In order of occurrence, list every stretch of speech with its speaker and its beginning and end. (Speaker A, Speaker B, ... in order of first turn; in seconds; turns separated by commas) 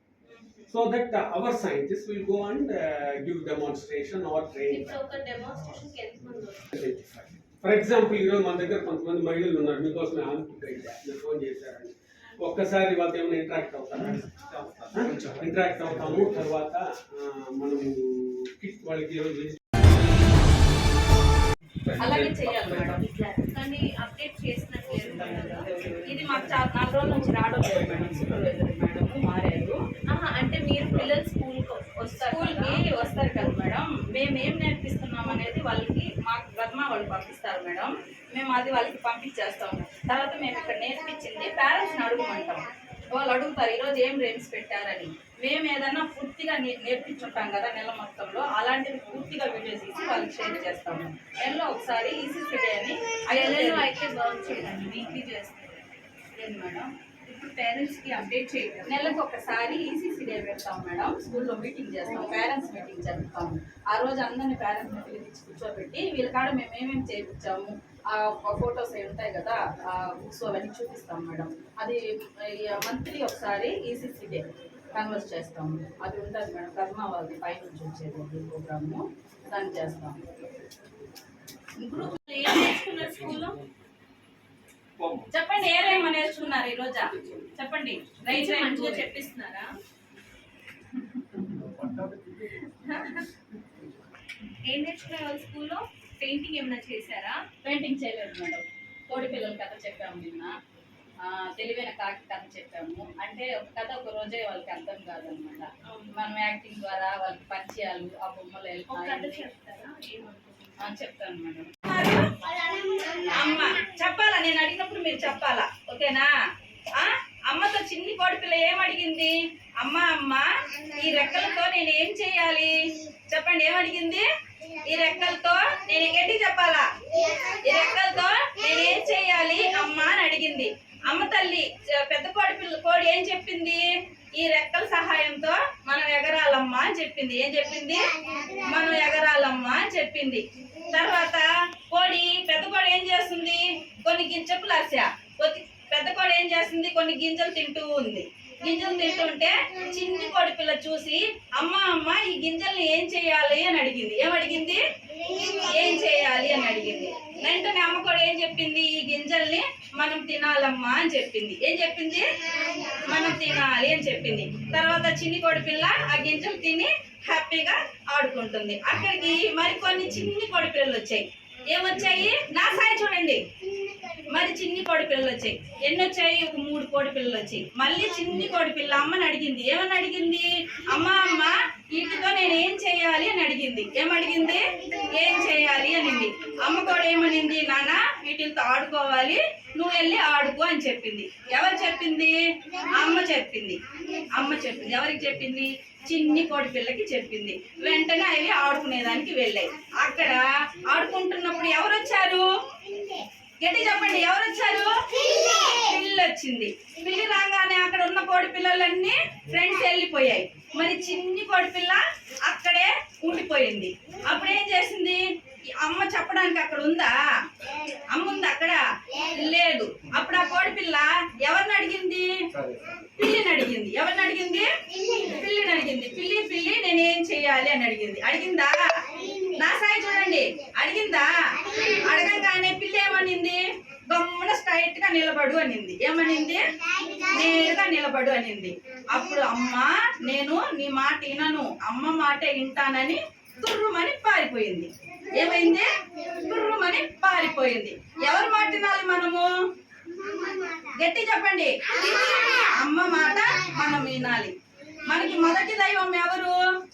Speaker A: 0.3-0.7, Speaker B: 0.7-5.0, Speaker A: 4.7-6.7, Speaker B: 6.7-19.6, Speaker C: 22.0-23.0, Speaker A: 22.8-25.7, Speaker C: 26.0-29.8, Speaker A: 30.1-32.8, Speaker C: 32.1-53.9, Speaker A: 53.3-56.0, Speaker C: 56.4-56.9, Speaker A: 57.3-59.1, Speaker C: 58.9-72.0, Speaker A: 62.1-62.4, Speaker C: 72.5-74.4, Speaker C: 74.9-80.2, Speaker A: 81.9-83.5, Speaker C: 85.3-89.1, Speaker A: 85.7-86.4, Speaker A: 88.3-89.7, Speaker A: 94.6-97.4, Speaker C: 97.6-100.5, Speaker C: 101.3-109.5, Speaker A: 105.9-106.1, Speaker A: 108.9-110.8, Speaker C: 110.8-112.2, Speaker C: 113.3-116.3, Speaker C: 117.0-122.7, Speaker C: 123.3-124.2, Speaker C: 124.8-126.8, Speaker C: 127.5-138.1, Speaker C: 138.6-162.2, Speaker C: 162.9-173.4, Speaker C: 174.3-192.3, Speaker C: 192.9-193.8, Speaker C: 194.3-202.4, Speaker C: 203.6-215.2, Speaker C: 215.8-217.1, Speaker C: 218.1-222.3, Speaker C: 223.2-233.6, Speaker C: 234.1-236.6, Speaker C: 237.2-249.5, Speaker C: 251.0-254.5, Speaker C: 255.0-256.5